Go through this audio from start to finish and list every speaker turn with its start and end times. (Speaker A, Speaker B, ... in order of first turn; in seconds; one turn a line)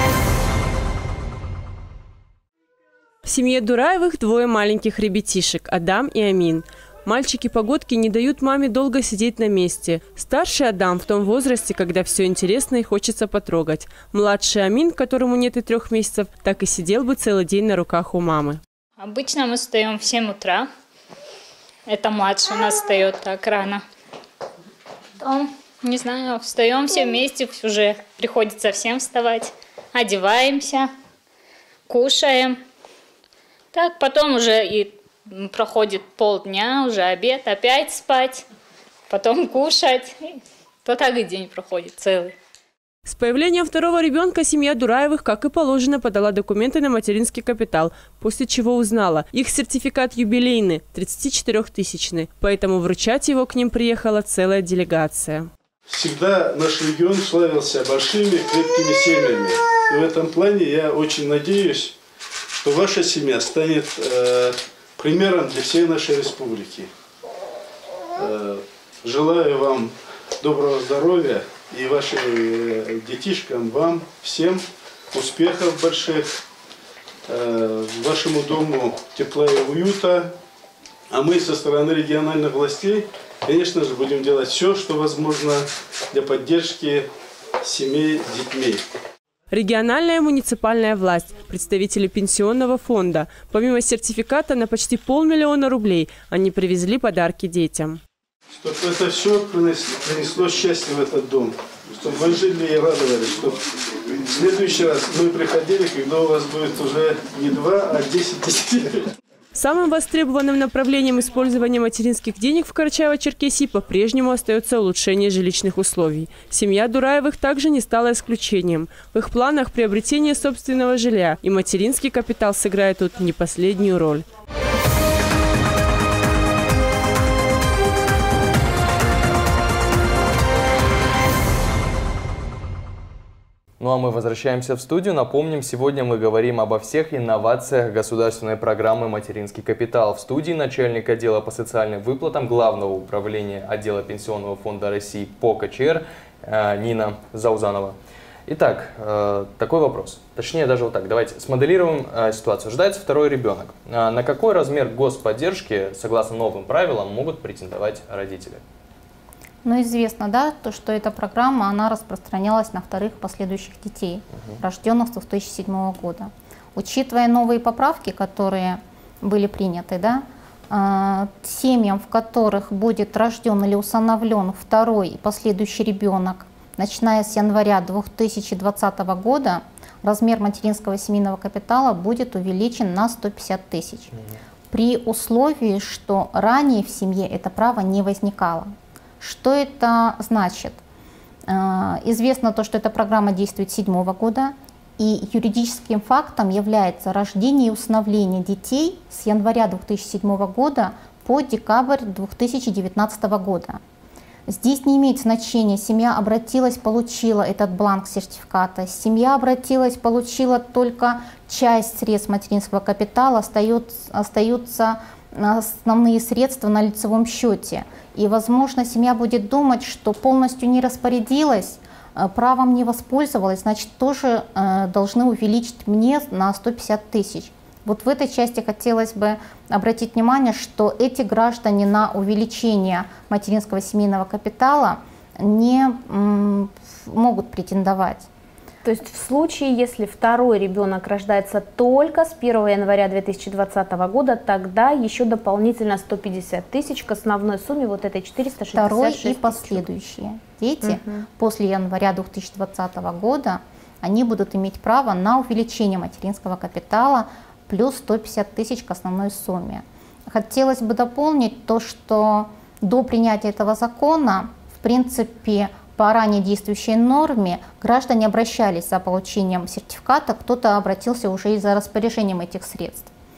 Speaker A: 3.2-18.6
Speaker B: 19.0-20.7
Speaker B: 21.9-23.8
Speaker B: 25.2-30.9
Speaker B: 31.9-32.6
Speaker B: 33.7-38.5
Speaker B: 39.1-42.3
Speaker A: 43.1-55.5
Speaker C: 55.9-62.0
Speaker C: 62.6-66.9
Speaker C: 68.2-76.4
Speaker C: 77.3-80.3
Speaker C: 81.1-87.1
Speaker C: 87.6-88.8
Speaker A: 89.5-98.0
Speaker C: 98.5-109.1
Speaker A: 109.5-124.2
Speaker D: 133.8-148.0
Speaker D: 148.5-158.6
Speaker E: 159.6-184.1
Speaker E: 184.7-190.8
Speaker E: 191.5-203.8
Speaker E: 204.5-238.3
Speaker F: 238.8-249.8
Speaker E: 248.7-273.1
Speaker F: 250.8-251.2